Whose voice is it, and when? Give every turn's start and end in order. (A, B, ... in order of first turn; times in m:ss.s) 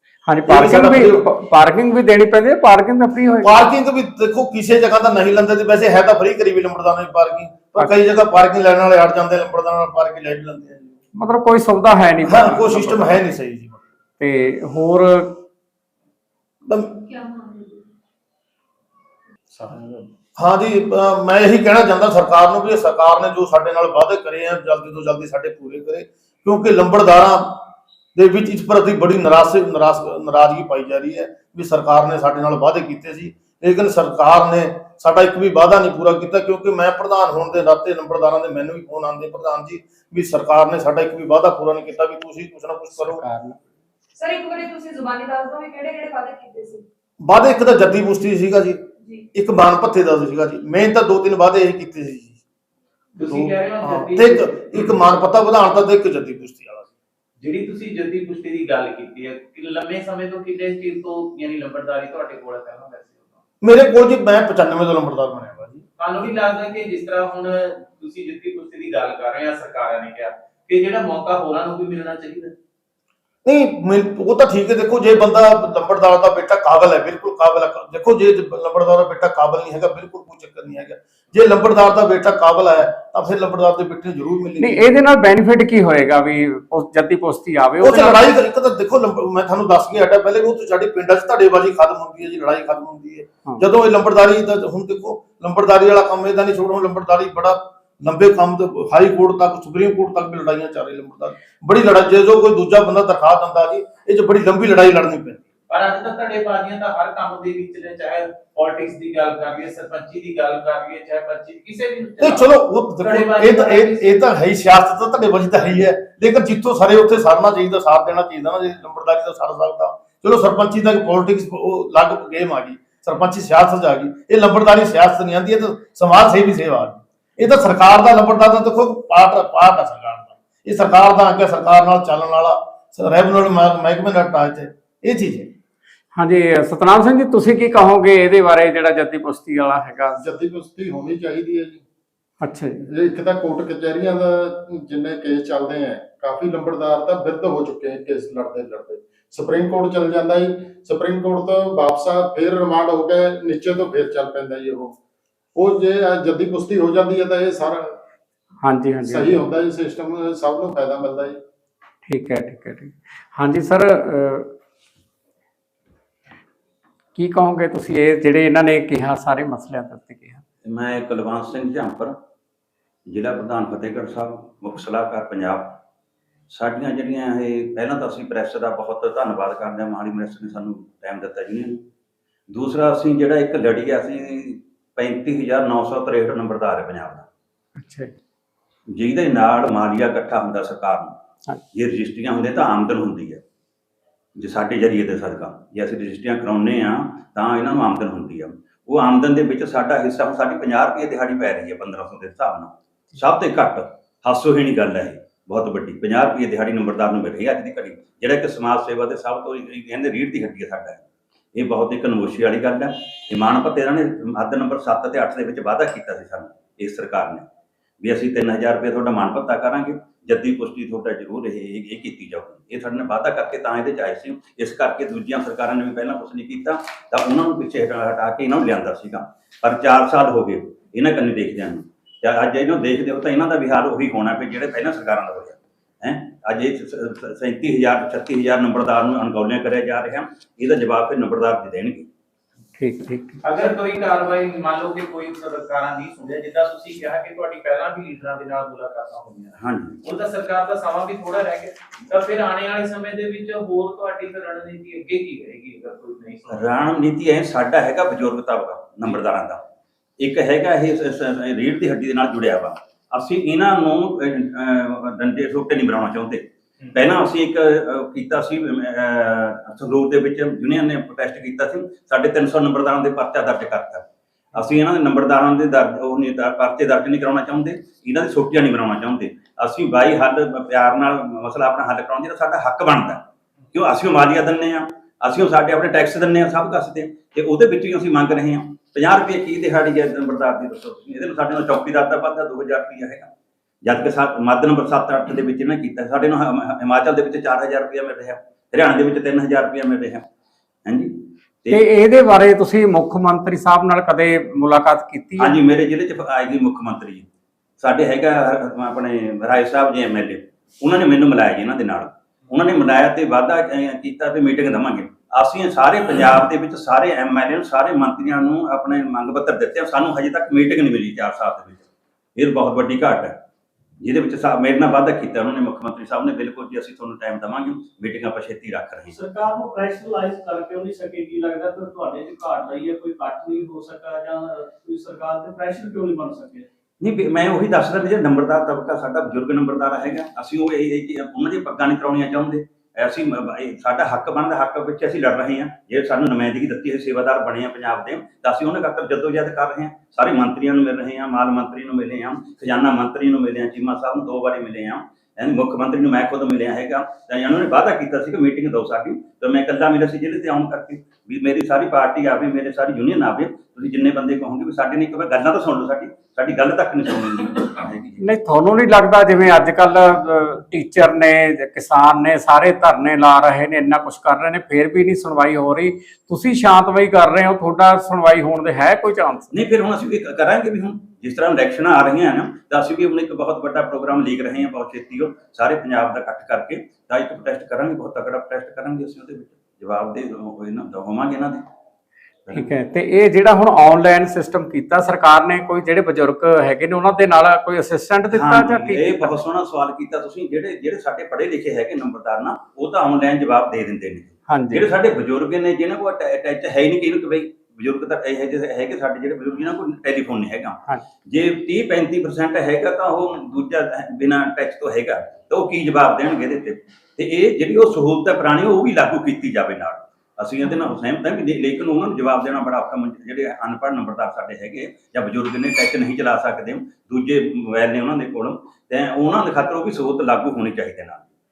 0:00.2-0:03.6 A
0:00.5-0:01.2 B
0:03.4-0:11.0 B
0:11.2-0:13.2 A
0:12.2-0:13.8 B
0:14.2-0:15.4 A
0:16.6-0:17.0 B
0:17.1-0:17.8 C
0:19.5-0:20.1 D
0:20.4-0:43.2 B
0:43.0-0:43.7 A
0:44.2-0:46.8 C
0:47.2-0:52.4 B
0:49.0-0:49.3 C
0:53.2-0:54.5 E
0:53.2-0:56.9 B
0:57.4-1:03.4 E
1:03.6-1:05.8 B
1:06.0-1:12.5 E
1:13.4-1:24.9 B
1:24.6-1:28.2 A
1:27.8-1:45.4 B
1:45.7-1:52.4 E
1:52.2-2:15.5 B
1:53.0-1:54.1 E
2:16.1-2:20.2 A
2:20.2-2:21.8 D
2:22.4-2:22.8 A
2:22.8-2:34.9 D
2:35.5-2:38.0 D
2:38.6-2:39.4 A
2:39.0-2:41.4 D
2:42.0-2:44.5 A
2:47.2-2:50.4 A
2:50.6-2:52.2 F
2:53.1-2:55.8 F
2:56.5-3:01.8 F
3:02.5-3:07.3 F
3:07.8-3:08.1 A
3:08.9-3:11.2 F
3:11.7-3:13.4 F
3:14.4-3:31.0 F
3:31.5-3:37.4 F
3:38.0-4:02.1 F
4:02.8-4:03.4 A
4:03.4-4:16.7 E
4:09.6-4:10.0 F
4:16.5-4:19.6 F
4:20.2-4:53.3 F
4:53.8-5:00.2 F
5:00.8-5:01.1 F
5:01.7-5:05.6 A
5:05.4-5:07.3 F
5:07.8-5:23.4 F
5:24.0-5:29.1 F
5:29.1-5:36.7 G
5:37.0-6:08.2 F
6:08.2-6:19.5 A
6:19.5-6:31.6 F
6:32.5-6:39.4 A
6:38.3-7:11.3 F
6:44.5-6:44.8 A